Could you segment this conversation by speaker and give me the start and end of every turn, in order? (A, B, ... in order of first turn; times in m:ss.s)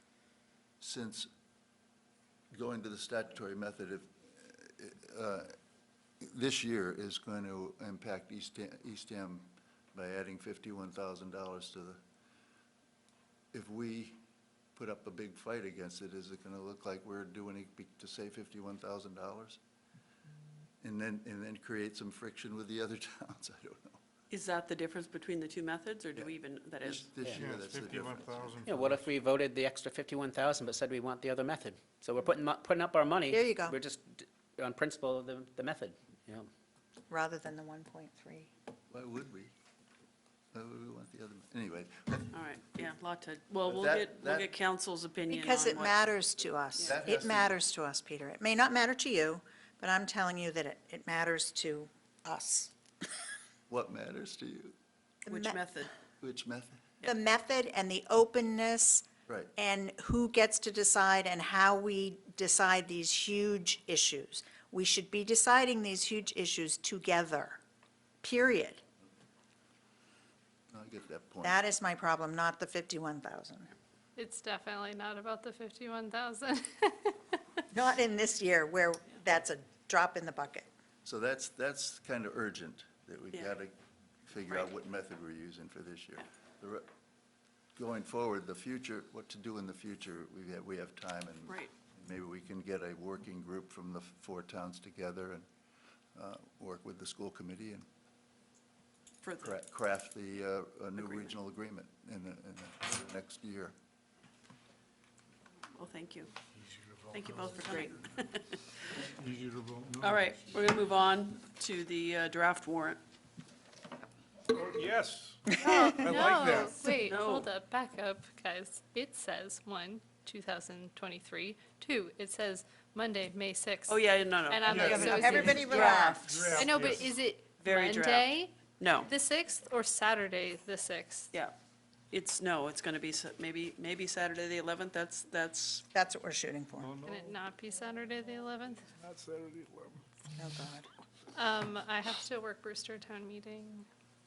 0:00.8-0:01.3 A
0:02.5-0:05.5 A
0:06.2-0:12.0 A
0:13.5-0:14.2 A
0:14.7-0:19.6 A
0:20.8-0:24.0 A
0:24.3-0:27.1 B
0:26.1-0:28.8 A
0:27.3-0:29.0 C
0:28.6-0:36.4 D
0:33.3-0:33.8 E
0:37.1-0:38.5 E
0:38.9-0:39.5 A
0:40.5-0:42.3 A
0:42.3-0:46.0 B
0:43.6-0:44.5 A
0:45.3-0:52.7 E
0:46.8-0:47.6 A
0:53.7-0:54.8 A
0:55.3-0:55.6 E
0:55.3-0:55.9 B
0:56.2-0:56.9 A
0:57.0-1:07.6 E
1:08.2-1:08.8 E
1:10.7-1:11.6 A
1:11.4-1:13.7 E
1:14.2-1:17.4 F
1:17.7-1:20.7 E
1:21.0-1:26.9 A
1:27.8-1:35.4 A
1:36.1-1:37.8 A
1:39.2-1:39.6 B
1:39.4-1:43.7 A
1:41.0-1:41.3 B
1:45.7-1:46.3 B
1:46.6-1:48.0 C
1:47.1-1:48.6 B
1:49.1-1:50.3 C
1:50.0-1:53.0 B
1:54.5-1:56.8 C
1:55.6-2:06.0 F
1:56.9-1:57.5 B
2:03.9-2:06.2 B
2:04.7-2:07.2 C
2:04.7-2:06.7 E
2:06.5-2:11.3 F
2:07.6-2:09.1 B
2:12.1-2:15.8 B
2:15.9-2:16.9 E
2:16.8-2:17.5 C
2:17.0-2:18.8 F
2:18.8-2:20.0 C
2:20.4-2:20.9 E
2:21.3-2:23.8 F